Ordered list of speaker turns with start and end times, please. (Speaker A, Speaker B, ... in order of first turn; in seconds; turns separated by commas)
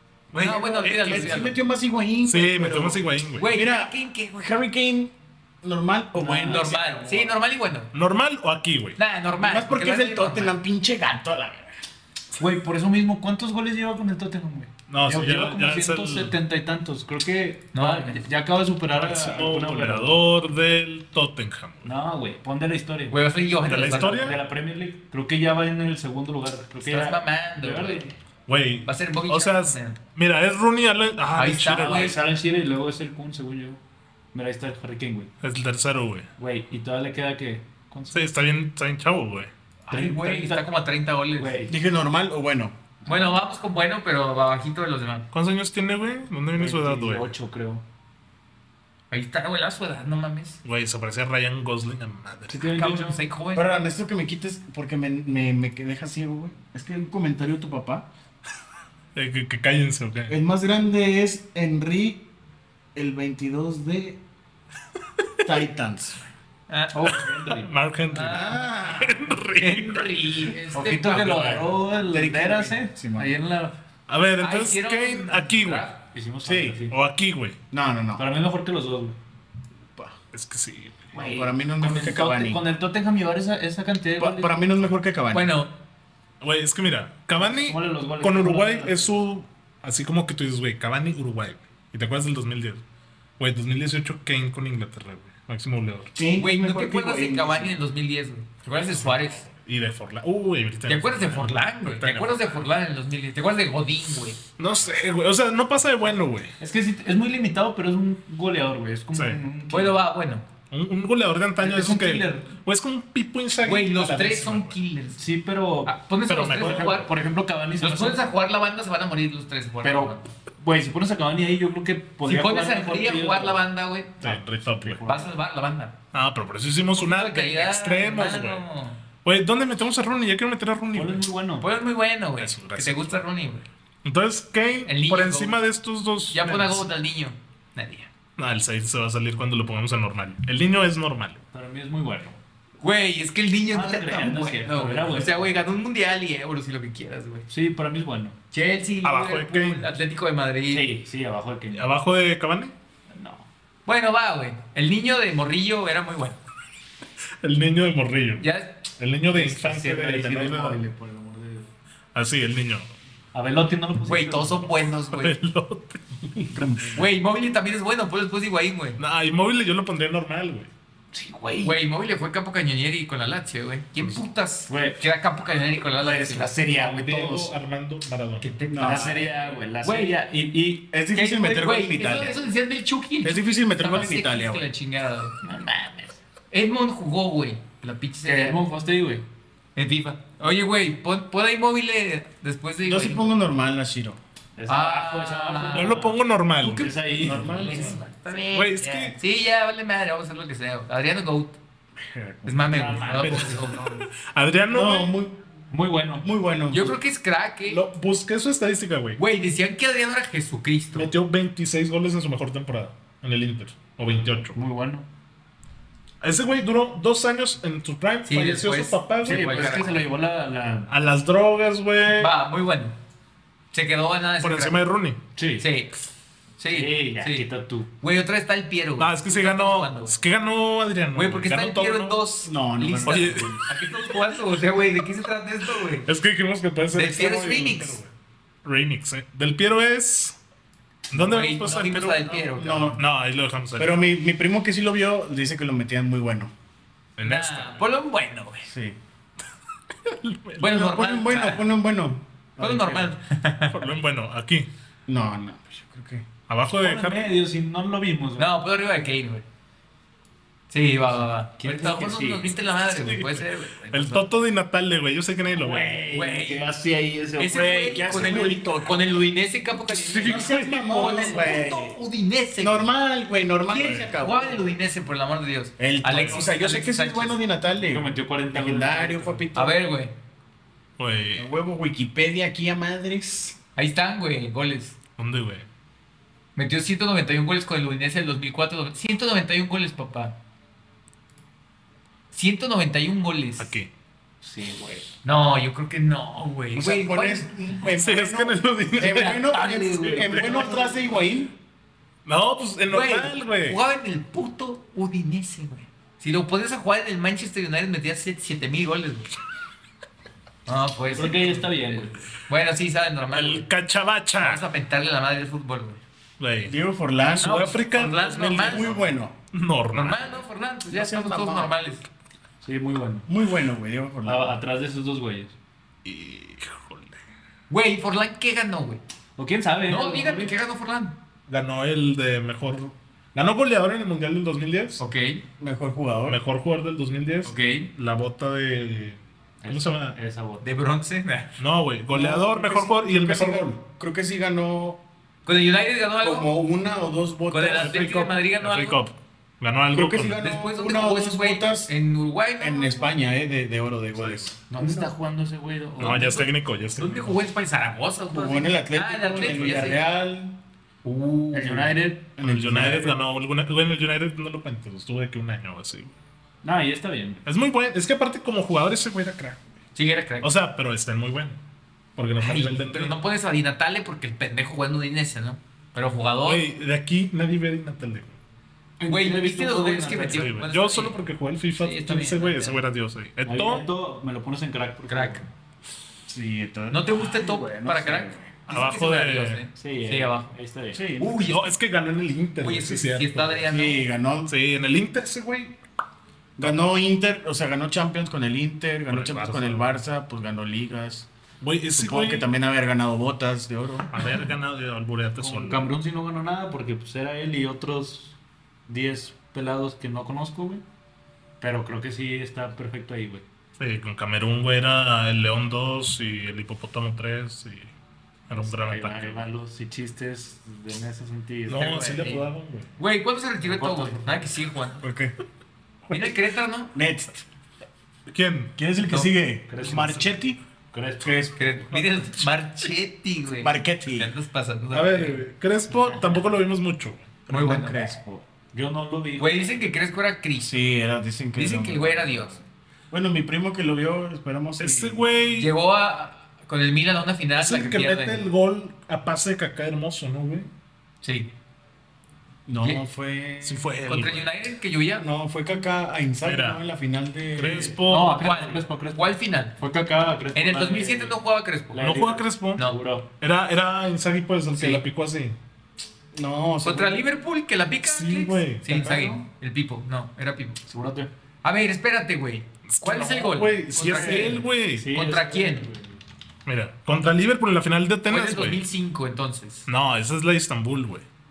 Speaker A: 0.3-1.5, Speaker B: 0.3-7.3, Speaker C: 0.3-1.6, Speaker A: 2.2-3.5, Speaker C: 3.4-4.5, Speaker D: 6.1-6.8, Speaker C: 6.4-7.9, Speaker A: 7.9-9.0, Speaker C: 9.0-10.6, Speaker B: 9.4-11.8, Speaker D: 12.4-20.2, Speaker A: 14.9-16.3, Speaker C: 17.7-18.2, Speaker A: 18.9-21.9, Speaker D: 21.8-28.1, Speaker C: 23.1-24.4, Speaker A: 23.6-24.4, Speaker C: 26.8-28.0, Speaker A: 28.5-32.2, Speaker C: 28.9-30.0, Speaker C: 31.4-32.2, Speaker D: 31.7-33.8, Speaker D: 34.3-35.3, Speaker A: 35.4-36.3, Speaker D: 36.4-38.3, Speaker A: 38.1-39.5, Speaker C: 39.9-41.6, Speaker D: 39.9-40.7, Speaker D: 41.4-41.8, Speaker B: 41.7-42.8, Speaker C: 43.0-45.3, Speaker A: 45.3-47.3, Speaker D: 46.5-47.8, Speaker C: 49.1-50.6, Speaker A: 50.6-52.8, Speaker D: 52.5-53.2, Speaker C: 52.7-53.7, Speaker B: 53.5-58.0, Speaker A: 59.1-60.4, Speaker B: 60.3-62.2, Speaker B: 62.9-64.2, Speaker B: 65.4-66.2, Speaker C: 66.7-67.2, Speaker D: 66.9-67.7, Speaker A: 67.1-70.3, Speaker C: 68.1-68.8, Speaker B: 68.3-69.3, Speaker C: 69.5-71.7, Speaker D: 70.7-73.8, Speaker B: 72.0-73.3, Speaker A: 74.1-75.9, Speaker C: 74.4-76.0, Speaker D: 76.1-77.0, Speaker B: 76.4-76.8, Speaker A: 76.9-77.6, Speaker B: 77.7-78.2, Speaker D: 78.2-79.2, Speaker A: 80.3-81.1, Speaker D: 81.1-84.6, Speaker B: 81.1-82.6, Speaker B: 84.2-85.5, Speaker C: 85.3-85.7, Speaker A: 86.4-92.8, Speaker D: 87.4-89.2, Speaker A: 93.4-96.1, Speaker B: 96.1-97.8, Speaker C: 96.4-99.5, Speaker A: 98.8-102.5, Speaker C: 100.9-104.4, Speaker A: 104.6-106.5, Speaker D: 106.6-110.0, Speaker A: 109.1-109.4, Speaker C: 109.7-110.4, Speaker A: 110.7-114.8, Speaker D: 111.6-112.5, Speaker C: 113.6-115.2, Speaker D: 115.1-118.3, Speaker C: 115.8-117.1, Speaker A: 116.3-117.0, Speaker C: 117.8-120.3, Speaker D: 119.8-123.6, Speaker C: 122.2-124.3, Speaker A: 124.2-125.0, Speaker D: 124.2-125.3, Speaker C: 125.0-126.0, Speaker A: 126.1-128.6, Speaker C: 126.9-129.0, Speaker A: 129.2-131.2, Speaker D: 130.9-131.7, Speaker C: 131.6-133.7, Speaker A: 132.4-133.1, Speaker A: 134.0-136.8, Speaker C: 134.8-135.6, Speaker C: 136.3-138.1, Speaker A: 138.4-141.4, Speaker D: 141.5-142.4, Speaker C: 142.8-147.5, Speaker D: 143.7-145.6, Speaker D: 147.5-148.4, Speaker C: 148.5-150.9, Speaker A: 149.0-149.9, Speaker D: 150.7-151.9, Speaker A: 151.7-152.7, Speaker D: 153.1-153.4, Speaker C: 153.8-156.4, Speaker A: 157.4-158.4, Speaker C: 158.4-158.9, Speaker A: 159.0-160.8, Speaker D: 159.3-161.7, Speaker A: 162.1-162.9, Speaker D: 163.3-164.8, Speaker C: 164.0-165.3, Speaker A: 165.1-166.8, Speaker B: 166.5-166.8, Speaker D: 166.8-167.0, Speaker C: 166.9-169.0, Speaker A: 169.0-170.7, Speaker D: 171.1-171.8, Speaker C: 171.6-176.5, Speaker D: 174.7-175.1, Speaker D: 176.0-177.6, Speaker A: 176.7-178.5, Speaker C: 178.4-180.2, Speaker B: 178.7-179.3, Speaker D: 178.8-180.9, Speaker B: 180.9-182.4, Speaker C: 181.1-185.4, Speaker B: 183.2-184.7, Speaker D: 185.4-186.2, Speaker C: 186.5-188.6, Speaker D: 188.2-189.2, Speaker C: 189.8-193.3, Speaker B: 192.8-194.2, Speaker D: 194.6-198.0, Speaker C: 194.7-196.0, Speaker A: 195.7-196.9, Speaker C: 196.6-201.6, Speaker B: 197.2-197.9, Speaker A: 197.5-197.9, Speaker A: 198.5-199.2, Speaker B: 202.0-203.1, Speaker C: 202.4-204.0, Speaker D: 202.7-203.8, Speaker A: 203.2-205.1, Speaker B: 204.7-205.5, Speaker D: 205.7-206.3, Speaker B: 206.2-207.0, Speaker C: 206.7-207.8, Speaker A: 207.6-209.2, Speaker C: 209.2-211.1, Speaker A: 210.9-214.6, Speaker D: 214.5-215.1, Speaker A: 216.2-219.8, Speaker C: 218.3-220.0, Speaker D: 219.2-220.9, Speaker A: 220.9-222.3, Speaker C: 222.2-222.9, Speaker C: 223.7-224.8, Speaker A: 224.4-225.2, Speaker D: 225.3-225.7, Speaker C: 225.6-225.9, Speaker C: 226.6-227.4, Speaker D: 226.7-227.9, Speaker C: 228.0-230.2, Speaker A: 229.0-232.2, Speaker C: 231.1-236.1, Speaker B: 232.4-233.6, Speaker A: 233.0-233.6, Speaker A: 236.0-238.1, Speaker C: 236.9-238.0, Speaker A: 238.6-240.4, Speaker A: 241.1-244.0, Speaker C: 241.1-243.0, Speaker B: 242.5-243.0, Speaker B: 243.8-246.5, Speaker A: 247.2-247.8, Speaker C: 247.2-248.7, Speaker B: 248.7-249.0, Speaker A: 250.0-250.7, Speaker C: 250.6-251.6, Speaker B: 250.6-253.1, Speaker C: 252.6-253.9, Speaker A: 253.7-254.7, Speaker B: 255.1-256.2, Speaker A: 256.5-257.3, Speaker D: 256.7-258.5, Speaker C: 258.4-259.4, Speaker C: 260.7-264.3, Speaker D: 261.6-262.6, Speaker A: 262.9-265.9, Speaker D: 265.5-268.4, Speaker C: 266.1-266.7, Speaker C: 267.4-272.9, Speaker B: 267.8-269.0, Speaker A: 269.9-271.1, Speaker B: 270.2-271.9, Speaker D: 271.0-271.4, Speaker B: 272.6-274.7, Speaker C: 273.7-277.4, Speaker A: 273.8-274.1, Speaker B: 275.8-279.7, Speaker A: 276.2-276.4, Speaker D: 277.8-279.5, Speaker C: 279.5-280.1, Speaker A: 281.0-281.5, Speaker B: 281.4-283.6, Speaker C: 283.8-284.9, Speaker A: 285.2-285.6, Speaker C: 286.6-290.3, Speaker C: 292.3-293.7, Speaker A: 293.6-293.9, Speaker D: 294.4-295.1, Speaker C: 295.2-297.5, Speaker B: 296.8-301.5, Speaker A: 297.9-299.6, Speaker C: 299.0-300.9, Speaker D: 299.5-300.9, Speaker A: 300.3-300.7, Speaker A: 302.2-303.8, Speaker C: 302.9-309.3, Speaker C: 310.6-313.7, Speaker D: 311.1-312.3, Speaker A: 313.3-314.6, Speaker C: 314.4-316.0, Speaker A: 316.4-316.7, Speaker B: 316.6-317.7, Speaker A: 317.4-320.4, Speaker C: 317.4-319.0, Speaker B: 318.6-319.3, Speaker C: 319.9-322.1, Speaker B: 320.9-321.7, Speaker D: 322.6-323.3, Speaker B: 323.3-324.6, Speaker D: 324.2-325.5, Speaker A: 326.0-327.2, Speaker C: 327.7-329.0, Speaker D: 329.4-330.6, Speaker C: 329.9-331.2, Speaker A: 331.5-335.0, Speaker C: 335.0-335.4, Speaker B: 335.6-336.4, Speaker A: 336.3-340.2, Speaker C: 337.4-337.9, Speaker D: 339.6-340.7, Speaker C: 340.6-341.6, Speaker A: 341.6-343.7, Speaker B: 342.1-345.0, Speaker C: 345.4-346.5, Speaker B: 346.2-348.2, Speaker C: 347.5-349.0, Speaker A: 347.7-350.4, Speaker B: 349.9-351.9, Speaker C: 350.4-353.1, Speaker B: 352.6-355.1, Speaker A: 354.1-354.5, Speaker D: 354.7-356.5, Speaker C: 354.8-355.1, Speaker A: 356.0-357.4, Speaker C: 356.0-360.1, Speaker B: 358.3-360.6, Speaker C: 361.0-362.0, Speaker D: 361.5-362.3, Speaker B: 362.4-363.1, Speaker A: 362.4-366.1, Speaker D: 366.6-367.4, Speaker A: 367.4-369.6, Speaker C: 369.9-370.5, Speaker A: 370.4-371.6, Speaker A: 372.1-373.1, Speaker C: 372.4-376.6, Speaker A: 376.4-378.4, Speaker D: 379.0-380.6, Speaker C: 379.0-381.2, Speaker A: 380.2-383.9, Speaker C: 381.8-382.8, Speaker D: 383.4-385.4, Speaker C: 385.1-385.4, Speaker B: 386.3-388.6, Speaker C: 386.9-390.5, Speaker A: 388.7-389.6, Speaker D: 389.8-391.1, Speaker B: 390.9-391.5, Speaker C: 391.2-391.7, Speaker A: 391.4-393.7, Speaker C: 392.6-394.0, Speaker B: 393.7-394.5, Speaker A: 394.5-395.8, Speaker B: 396.6-401.3, Speaker A: 399.1-400.0, Speaker A: 401.6-402.5, Speaker B: 401.9-404.2, Speaker A: 404.1-405.9, Speaker D: 405.4-410.8, Speaker D: 411.6-413.4, Speaker A: 413.8-417.9, Speaker A: 418.5-419.5, Speaker D: 418.6-422.4, Speaker A: 421.7-422.9, Speaker C: 421.9-422.3, Speaker C: 423.0-425.0, Speaker D: 423.6-424.6, Speaker B: 425.0-425.3, Speaker C: 426.1-426.9, Speaker B: 426.9-427.4, Speaker A: 428.3-428.7, Speaker B: 428.8-430.6, Speaker D: 429.7-431.5, Speaker B: 431.2-431.7, Speaker C: 431.6-435.4, Speaker B: 433.6-434.3, Speaker A: 434.9-437.3, Speaker B: 437.5-438.4, Speaker C: 437.5-438.0, Speaker D: 438.7-439.7, Speaker C: 439.4-440.8, Speaker B: 440.6-442.6, Speaker C: 441.6-442.6, Speaker B: 443.1-445.2, Speaker A: 444.8-445.7, Speaker C: 445.6-448.5, Speaker A: 447.6-450.7, Speaker C: 451.2-451.5, Speaker B: 452.6-453.9, Speaker A: 453.6-454.5, Speaker C: 454.1-455.2, Speaker B: 455.2-457.9, Speaker A: 456.4-456.8, Speaker A: 457.6-458.4, Speaker D: 457.7-461.4, Speaker C: 458.1-459.8, Speaker C: 460.5-462.0, Speaker D: 461.9-463.3, Speaker A: 462.0-462.9, Speaker A: 463.4-465.6, Speaker C: 464.8-465.0, Speaker B: 466.3-467.2, Speaker C: 466.8-470.8, Speaker A: 468.0-469.1, Speaker B: 469.0-469.2, Speaker D: 470.9-471.3, Speaker C: 471.6-475.9, Speaker A: 472.9-475.1, Speaker D: 474.1-476.2, Speaker A: 476.6-478.9, Speaker C: 478.3-479.9, Speaker A: 479.9-481.2